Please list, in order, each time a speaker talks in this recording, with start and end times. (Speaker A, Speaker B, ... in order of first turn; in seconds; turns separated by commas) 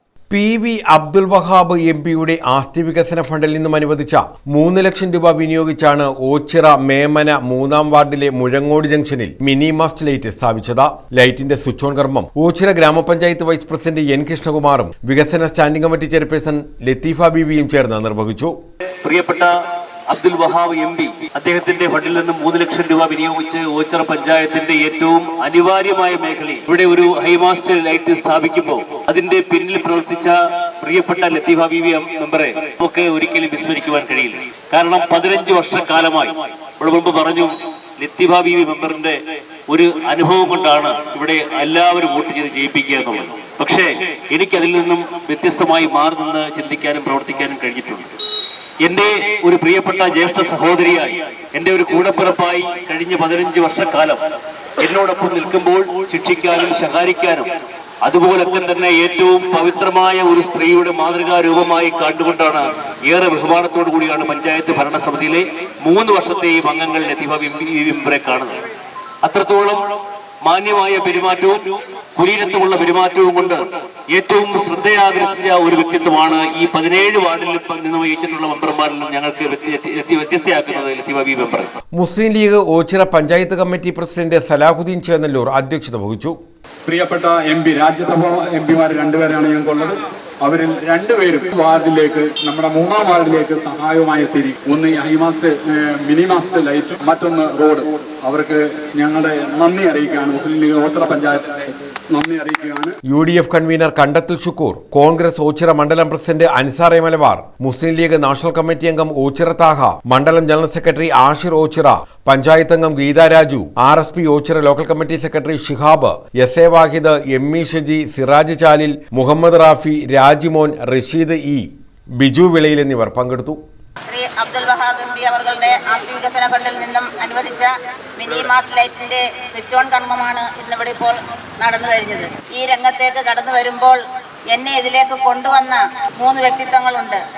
Speaker A: 0.3-18.5, Speaker B: 19.0-19.5, Speaker B: 20.1-39.2, Speaker B: 39.7-48.1, Speaker B: 48.8-54.2, Speaker B: 54.8-57.5, Speaker B: 58.0-68.6, Speaker B: 69.2-71.6, Speaker B: 72.2-73.6, Speaker B: 74.1-81.7, Speaker A: 81.9-86.3, Speaker C: 86.8-103.0, Speaker A: 103.1-121.7, Speaker A: 122.2-123.6, Speaker D: 124.1-134.0, Speaker D: 134.5-137.2